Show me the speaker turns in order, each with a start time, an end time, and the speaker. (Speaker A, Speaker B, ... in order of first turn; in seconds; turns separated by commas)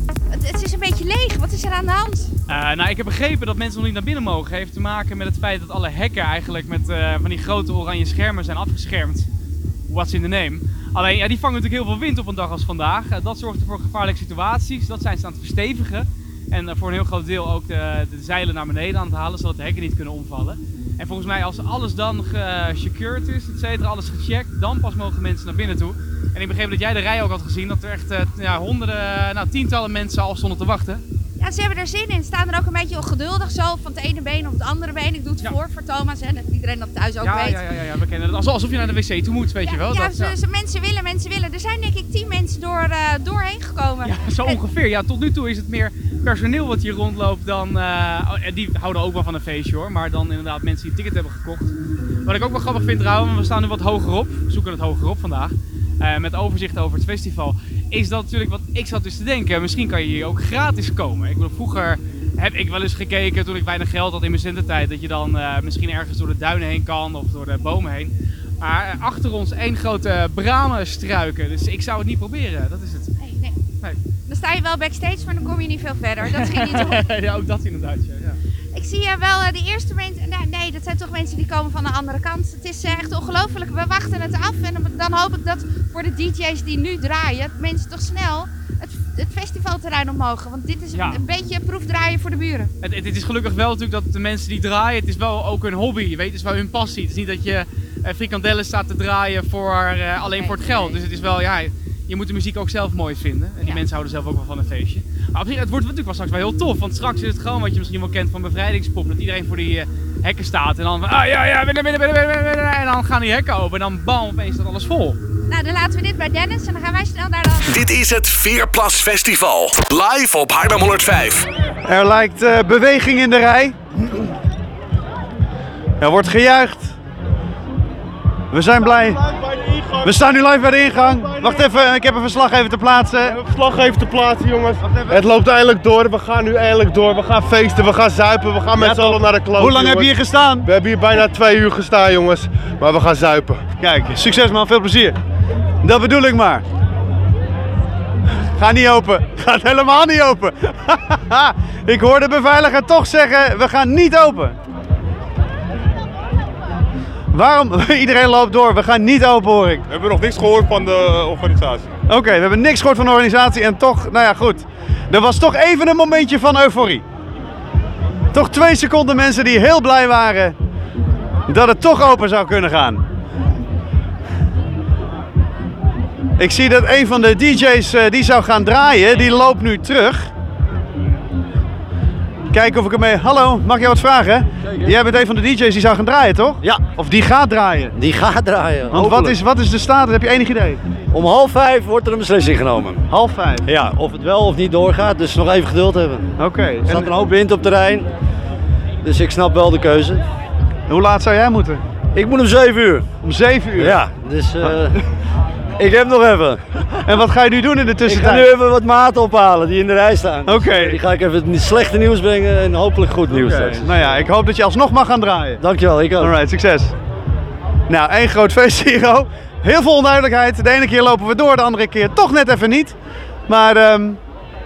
Speaker A: 0.3-2.3, Speaker B: 2.5-9.3, Speaker B: 9.9-31.0, Speaker A: 31.4-37.6, Speaker B: 37.2-40.4, Speaker A: 39.6-44.6, Speaker B: 44.0-73.2, Speaker A: 73.2-73.6, Speaker A: 74.3-77.0, Speaker B: 76.2-78.4, Speaker A: 78.7-92.7, Speaker B: 90.9-91.2, Speaker B: 92.8-115.2, Speaker A: 100.2-101.0, Speaker A: 115.5-117.7, Speaker C: 117.7-121.5, Speaker D: 121.8-123.8, Speaker D: 126.0-127.0, Speaker D: 128.5-129.2, Speaker D: 130.0-133.4, Speaker E: 133.3-140.1, Speaker D: 134.8-135.2, Speaker D: 138.8-140.7, Speaker E: 140.7-143.6, Speaker D: 143.8-145.2, Speaker D: 145.8-146.6, Speaker D: 148.5-154.6, Speaker D: 157.3-159.8, Speaker F: 159.9-162.0, Speaker D: 162.1-167.0, Speaker D: 168.3-170.6, Speaker D: 171.5-173.0, Speaker D: 176.4-180.3, Speaker D: 182.5-187.9, Speaker G: 187.9-189.4, Speaker D: 188.9-190.8, Speaker G: 191.1-193.1, Speaker D: 193.1-193.7, Speaker G: 193.7-196.3, Speaker D: 196.4-197.1, Speaker G: 196.8-198.1, Speaker G: 199.0-200.2, Speaker D: 200.9-201.8, Speaker G: 202.1-203.1, Speaker D: 203.2-204.0, Speaker G: 203.8-205.0, Speaker G: 205.8-207.1, Speaker D: 207.0-208.5, Speaker G: 208.1-214.2, Speaker D: 210.4-211.0, Speaker D: 213.3-215.6, Speaker G: 215.6-216.3, Speaker D: 216.2-216.9, Speaker D: 217.9-222.9, Speaker D: 223.5-224.2